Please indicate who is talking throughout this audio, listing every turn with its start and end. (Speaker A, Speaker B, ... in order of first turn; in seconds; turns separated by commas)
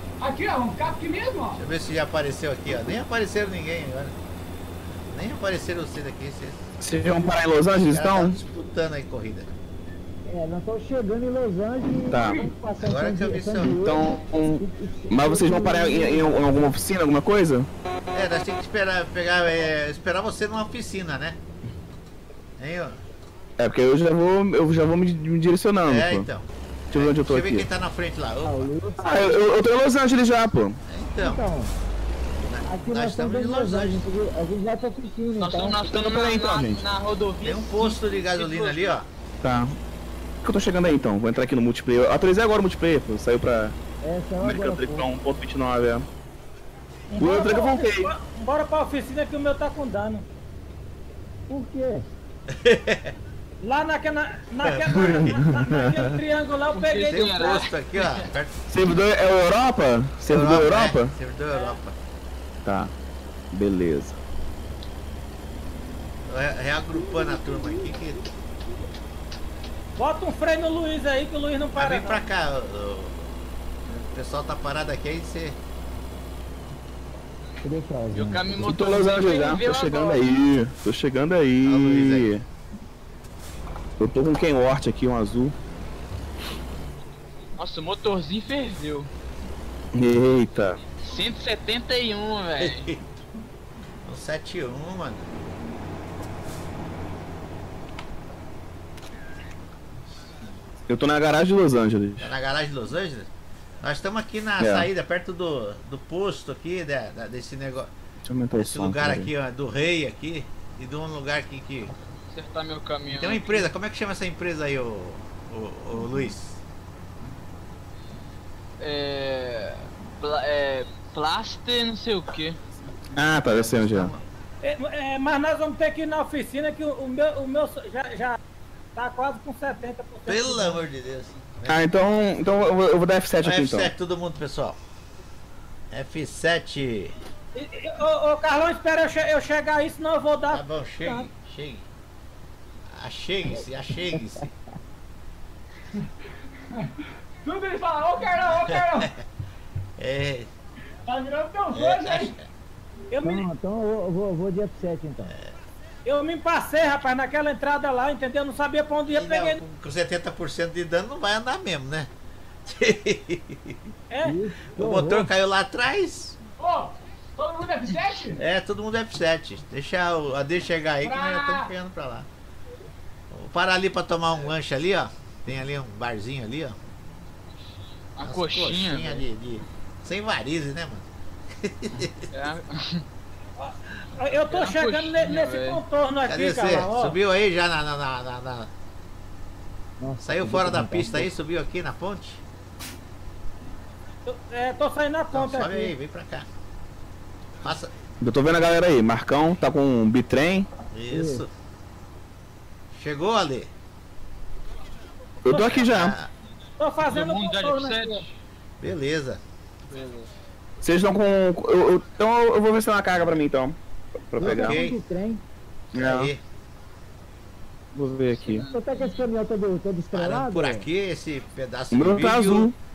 Speaker A: 0.2-1.6, Speaker B: 1.6-4.1, Speaker B: 5.1-6.6, Speaker C: 6.8-8.4, Speaker B: 7.8-9.5, Speaker D: 10.3-16.4, Speaker C: 12.1-12.4, Speaker A: 12.1-12.5, Speaker B: 12.8-13.8, Speaker C: 13.6-17.7, Speaker B: 18.1-21.4, Speaker B: 22.6-23.0, Speaker C: 23.6-26.3, Speaker B: 25.8-28.7, Speaker C: 26.9-27.7, Speaker D: 28.4-29.3, Speaker C: 29.0-30.8, Speaker B: 30.9-31.4, Speaker D: 31.2-31.7, Speaker B: 32.4-34.0, Speaker D: 32.6-35.8, Speaker E: 35.4-39.0, Speaker C: 35.9-36.8, Speaker B: 37.4-39.1, Speaker C: 39.4-39.8, Speaker C: 40.4-43.7, Speaker D: 44.0-45.0, Speaker C: 44.4-46.1, Speaker F: 47.1-50.2, Speaker C: 47.2-48.1, Speaker D: 51.5-52.0, Speaker B: 52.5-53.1, Speaker F: 53.6-57.6, Speaker B: 54.6-55.0, Speaker C: 55.0-56.1, Speaker E: 56.7-58.2, Speaker B: 57.1-58.5, Speaker C: 58.7-61.1, Speaker B: 60.2-62.0, Speaker F: 61.5-61.8, Speaker C: 62.6-62.9, Speaker C: 63.5-64.2, Speaker B: 66.3-68.2, Speaker F: 70.0-72.2, Speaker B: 71.7-73.3, Speaker B: 73.8-75.6, Speaker D: 77.6-78.8, Speaker E: 78.1-80.3, Speaker C: 78.7-82.4, Speaker B: 81.6-82.3, Speaker C: 84.0-85.5, Speaker E: 87.6-89.1, Speaker C: 89.9-90.8, Speaker E: 91.0-92.9, Speaker B: 92.6-93.0, Speaker B: 94.0-95.3, Speaker C: 100.9-102.3, Speaker B: 102.2-103.3, Speaker B: 103.8-107.9, Speaker C: 104.6-104.9, Speaker C: 108.2-109.3, Speaker B: 108.5-111.9, Speaker E: 112.3-113.7, Speaker B: 113.1-116.6, Speaker E: 118.8-122.6, Speaker C: 123.1-124.1, Speaker B: 123.3-124.2, Speaker F: 124.6-128.4, Speaker F: 128.9-130.8, Speaker B: 130.3-131.8, Speaker C: 131.7-133.9, Speaker B: 133.4-134.8, Speaker B: 135.9-137.1, Speaker F: 137.5-141.3, Speaker B: 140.5-141.9, Speaker B: 142.9-144.5, Speaker A: 147.4-149.1, Speaker B: 148.5-149.1, Speaker B: 150.0-150.5, Speaker A: 151.1-152.3, Speaker B: 151.7-152.5, Speaker F: 153.1-153.4, Speaker D: 153.2-155.3, Speaker B: 155.3-155.5, Speaker F: 156.0-159.6, Speaker B: 159.1-162.1, Speaker B: 162.7-163.8, Speaker F: 164.1-164.4, Speaker D: 164.2-165.3, Speaker B: 164.8-166.4, Speaker A: 166.6-168.4, Speaker B: 168.3-172.3, Speaker A: 171.0-171.7, Speaker B: 173.3-176.8, Speaker E: 178.2-179.2, Speaker B: 178.2-181.1, Speaker B: 181.6-182.3, Speaker E: 182.3-183.0, Speaker F: 183.6-187.2, Speaker E: 184.4-185.8, Speaker B: 186.2-188.7, Speaker D: 190.0-191.3, Speaker B: 190.2-192.4, Speaker F: 194.2-195.9, Speaker B: 195.3-196.5, Speaker B: 197.6-197.9, Speaker C: 198.2-200.7, Speaker B: 200.9-201.5, Speaker D: 201.1-201.4, Speaker B: 202.9-203.7, Speaker C: 205.4-206.1, Speaker B: 205.5-206.3, Speaker F: 206.8-208.2, Speaker E: 207.0-208.3, Speaker B: 208.8-209.4, Speaker E: 209.9-210.3, Speaker C: 210.8-213.8, Speaker C: 214.3-214.7, Speaker B: 214.4-215.0, Speaker D: 214.4-215.4, Speaker B: 215.9-216.4, Speaker C: 215.9-216.3, Speaker C: 217.9-218.7, Speaker E: 218.3-219.2, Speaker D: 218.7-220.8, Speaker B: 220.1-222.7, Speaker C: 221.9-222.7